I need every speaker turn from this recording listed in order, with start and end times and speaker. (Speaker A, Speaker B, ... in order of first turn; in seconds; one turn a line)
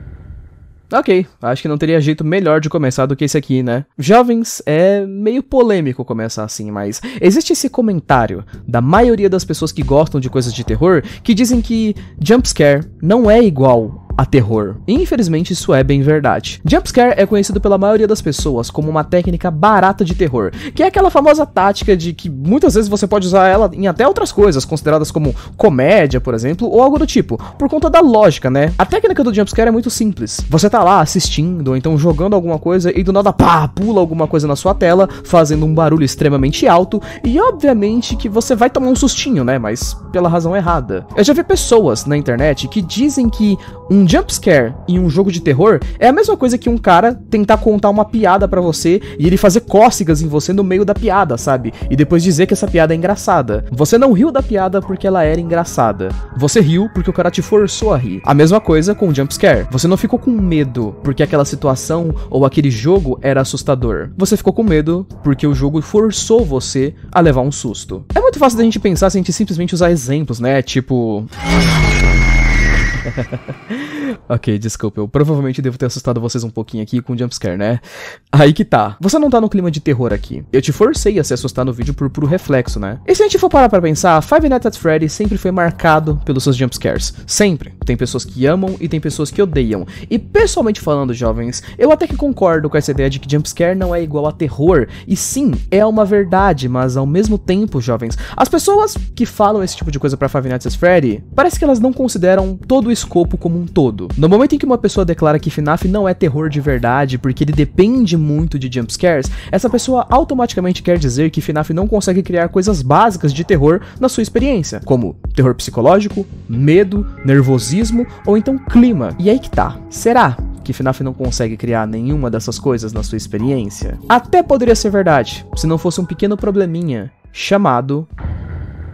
Speaker A: 0.9-71.3
Speaker A: 73.0-128.1